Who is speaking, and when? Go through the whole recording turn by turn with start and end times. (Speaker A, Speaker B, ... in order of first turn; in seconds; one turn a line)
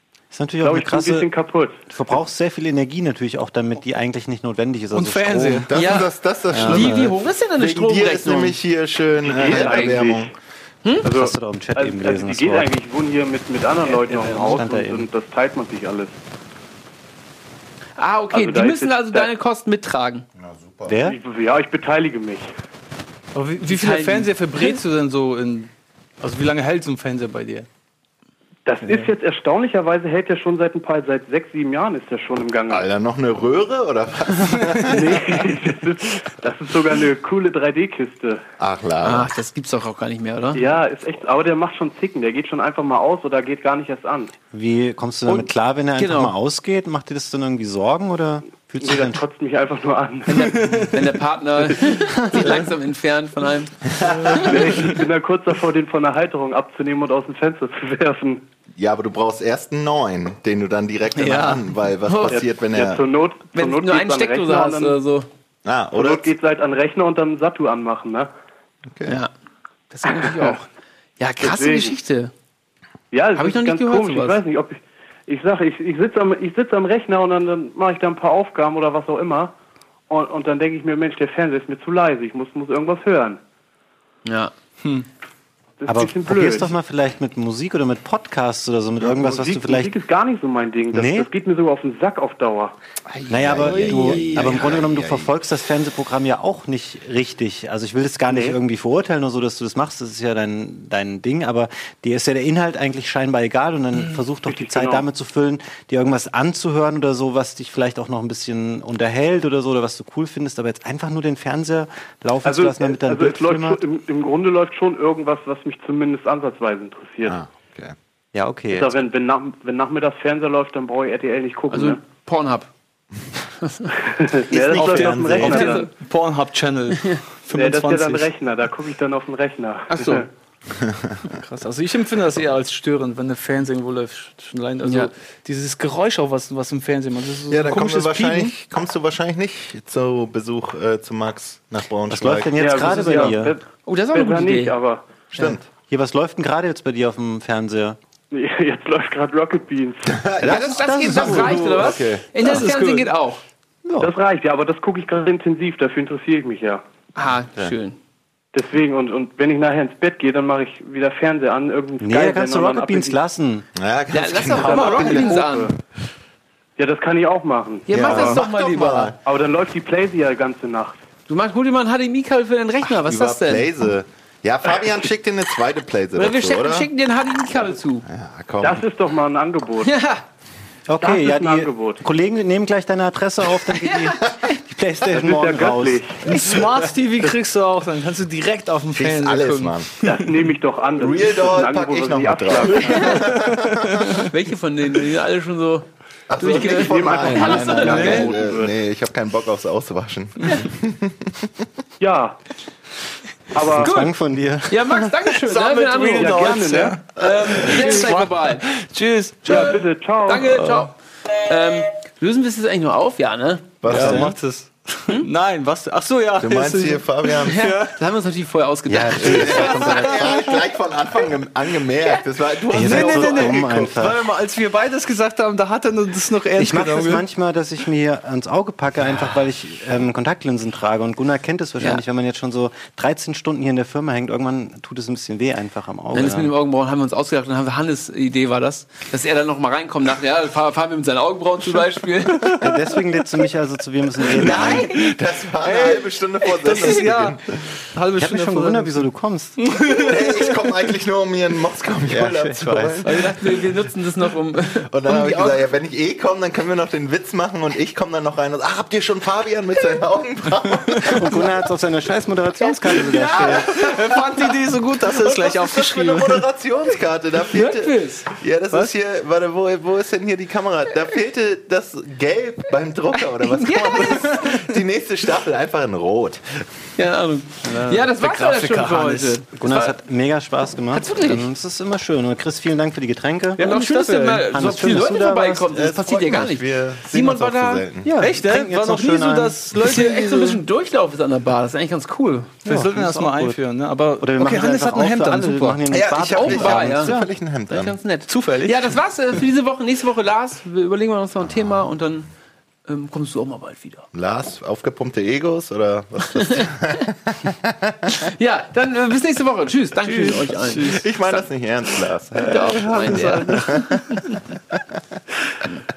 Speaker A: 0.3-1.3
Speaker B: 0.6-1.8
Speaker A: 1.9-5.7
Speaker C: 4.9-5.7
Speaker D: 5.7-10.3
Speaker E: 5.7-8.6
Speaker A: 6.5-7.1
Speaker B: 9.2-10.3
Speaker E: 9.4-9.9
Speaker A: 11.0-12.7
Speaker B: 11.0-16.2
Speaker A: 13.9-15.1
Speaker E: 18.0-20.2
Speaker B: 18.3-19.3
Speaker D: 20.4-20.9
Speaker A: 20.9-21.2
Speaker B: 21.0-22.5
Speaker C: 23.3-27.7
Speaker E: 23.6-24.8
Speaker B: 28.6-32.9
Speaker C: 28.8-29.1
Speaker D: 32.7-35.5
Speaker B: 34.9-38.4
Speaker D: 38.6-39.3
Speaker E: 39.0-40.7
Speaker B: 40.5-44.3
Speaker A: 44.5-49.2
Speaker E: 45.3-46.3
Speaker B: 48.8-50.7
Speaker E: 50.3-53.8
Speaker C: 50.4-50.9
Speaker A: 52.3-52.6
Speaker B: 54.0-58.5
Speaker E: 54.3-54.9
Speaker D: 58.7-63.0
Speaker E: 61.1-62.4
Speaker B: 62.3-65.0
Speaker E: 63.5-65.3
Speaker D: 65.6-66.3
Speaker B: 65.9-68.3
Speaker D: 68.9-69.2
Speaker E: 69.0-69.3
Speaker E: 69.9-70.7
Speaker E: 71.2-72.3
Speaker B: 71.4-71.9
Speaker B: 73.1-79.5
Speaker E: 73.3-74.4
Speaker B: 80.1-83.4
Speaker E: 84.2-84.5
Speaker B: 85.8-86.7
Speaker A: 85.9-89.9
Speaker B: 89.0-92.8
Speaker A: 90.9-91.3
Speaker D: 93.3-95.3
Speaker A: 93.3-113.8
Speaker B: 98.3-98.6
Speaker B: 104.5-105.0
Speaker B: 112.4-117.4
Speaker D: 117.2-118.0
Speaker A: 118.3-119.0
Speaker B: 118.7-122.0
Speaker E: 121.7-122.7
Speaker E: 123.6-123.9
Speaker B: 124.2-125.8
Speaker D: 124.5-125.7
Speaker C: 124.8-128.3
Speaker A: 124.9-125.6
Speaker E: 125.3-125.9
Speaker B: 127.5-130.3
Speaker E: 129.9-130.2
Speaker D: 130.8-131.2
Speaker C: 131.3-138.6
Speaker E: 134.8-135.1
Speaker D: 137.5-143.2
Speaker A: 142.1-143.5
Speaker B: 142.6-145.0
Speaker E: 143.8-144.8
Speaker D: 145.3-145.7
Speaker A: 145.7-148.0
Speaker B: 148.3-150.2
Speaker D: 150.1-152.2
Speaker A: 150.4-151.8
Speaker E: 150.4-153.4
Speaker C: 152.4-153.1
Speaker A: 153.8-154.1
Speaker B: 154.0-156.8
Speaker E: 157.2-158.0
Speaker B: 158.5-163.2
Speaker A: 162.0-163.7
Speaker D: 163.8-165.3
Speaker E: 164.1-165.7
Speaker B: 164.5-165.8
Speaker B: 166.8-168.4
Speaker E: 167.9-169.1
Speaker D: 167.9-169.2
Speaker B: 169.2-171.0
Speaker E: 171.3-173.7
Speaker D: 172.9-176.9
Speaker E: 176.1-178.1
Speaker D: 178.1-178.8
Speaker B: 178.6-179.9
Speaker E: 179.8-180.2
Speaker A: 180.9-186.0
Speaker B: 181.0-182.0
Speaker E: 183.8-184.6
Speaker B: 185.1-186.2
Speaker C: 186.2-190.4
Speaker D: 188.9-190.2
Speaker B: 190.0-193.4
Speaker D: 191.0-194.2
Speaker C: 193.2-194.1
Speaker E: 194.3-195.9
Speaker D: 196.3-201.5
Speaker E: 196.4-198.3
Speaker B: 196.4-198.7
Speaker C: 197.8-198.2
Speaker B: 202.0-202.4
Speaker B: 203.5-203.9
Speaker A: 203.6-205.1
Speaker E: 203.8-204.1
Speaker E: 204.7-208.7
Speaker C: 205.5-209.8
Speaker B: 206.1-207.0
Speaker B: 209.4-210.6
Speaker E: 209.5-213.8
Speaker C: 210.5-210.9
Speaker D: 213.8-214.3
Speaker A: 213.9-214.3
Speaker C: 213.9-217.9
Speaker D: 216.4-217.6
Speaker E: 217.4-219.9
Speaker A: 218.9-220.5
Speaker D: 219.3-224.0
Speaker C: 219.5-220.5
Speaker A: 222.7-224.2
Speaker C: 222.8-227.2
Speaker A: 226.6-236.5
Speaker E: 236.1-242.6
Speaker A: 242.6-244.9
Speaker D: 244.4-247.8
Speaker E: 244.5-244.8
Speaker C: 245.6-250.7
Speaker A: 248.2-249.6
Speaker D: 249.9-253.4
Speaker A: 252.1-253.1
Speaker E: 253.0-255.6
Speaker D: 254.9-261.2
Speaker A: 261.1-263.7
Speaker E: 262.6-264.4
Speaker C: 263.3-266.5
Speaker D: 265.2-276.7
Speaker E: 267.5-268.3
Speaker E: 273.6-274.4
Speaker C: 274.2-274.6
Speaker E: 277.0-280.0
Speaker A: 277.7-278.1
Speaker C: 278.0-279.3
Speaker A: 279.0-285.7
Speaker E: 280.9-281.5
Speaker E: 283.6-287.8
Speaker C: 283.6-284.1
Speaker D: 285.7-288.1
Speaker A: 288.0-289.6
Speaker C: 288.2-290.6
Speaker E: 289.8-292.5
Speaker C: 292.6-295.8
Speaker A: 292.6-293.6
Speaker A: 294.2-297.3
Speaker E: 295.9-297.2
Speaker D: 295.9-298.0
Speaker E: 297.7-302.3
Speaker C: 298.3-299.0
Speaker E: 302.9-304.1
Speaker D: 304.1-308.1
Speaker E: 308.3-311.4
Speaker C: 310.0-311.0
Speaker D: 311.0-314.0
Speaker E: 312.3-314.4
Speaker C: 312.5-313.8